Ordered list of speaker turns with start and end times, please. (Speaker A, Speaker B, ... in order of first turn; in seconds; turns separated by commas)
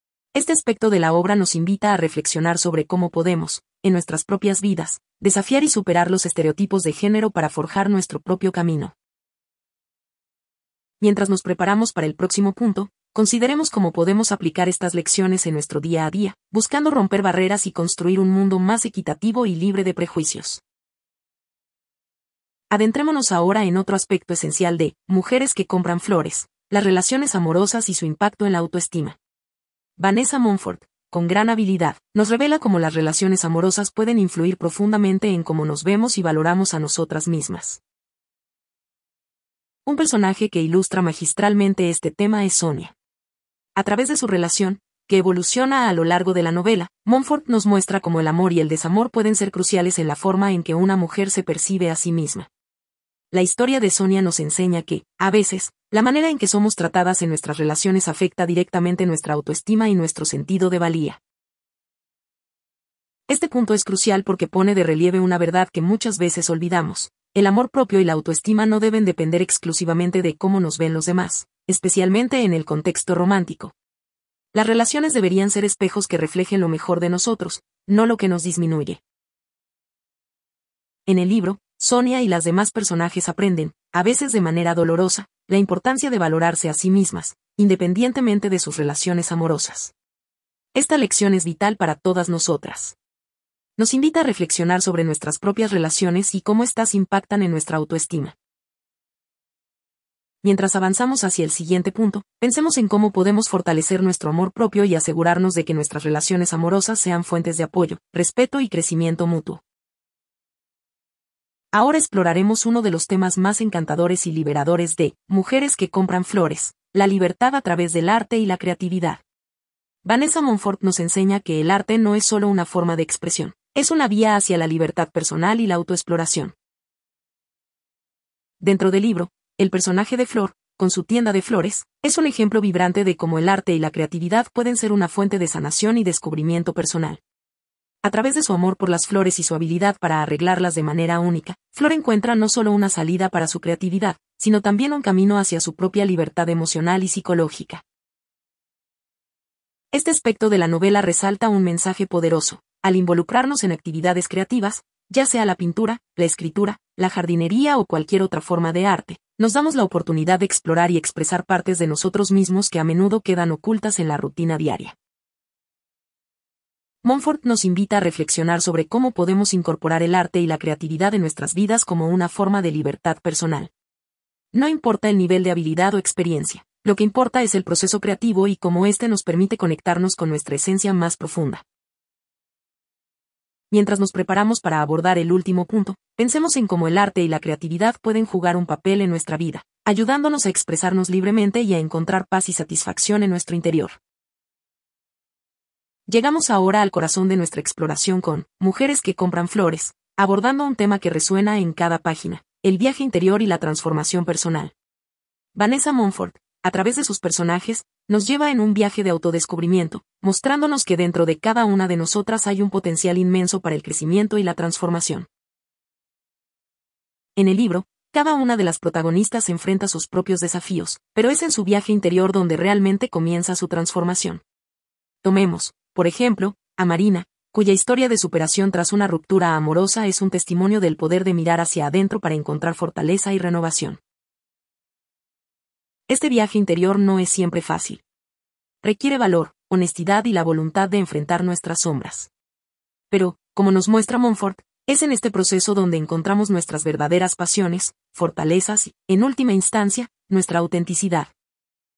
Speaker A: 0.3-8.9, Speaker A: 11.0-20.6, Speaker A: 22.7-29.2, Speaker A: 30.0-37.8, Speaker A: 39.9-43.0, Speaker A: 43.8-52.5, Speaker A: 53.3-61.2, Speaker A: 63.3-73.7, Speaker A: 74.5-79.0, Speaker A: 81.1-89.9, Speaker A: 90.8-93.0, Speaker A: 93.8-98.4, Speaker A: 100.4-109.6, Speaker A: 111.7-119.2, Speaker A: 120.0-126.5, Speaker A: 128.6-137.2, Speaker A: 138.0-147.8, Speaker A: 149.9-164.9, Speaker A: 167.0-173.7, Speaker A: 174.5-181.6, Speaker A: 183.7-194.0, Speaker A: 196.1-204.7, Speaker A: 205.6-215.3, Speaker A: 217.4-224.4, Speaker A: 225.2-234.0, Speaker A: 236.1-238.0, Speaker A: 238.8-242.3, Speaker A: 243.1-251.3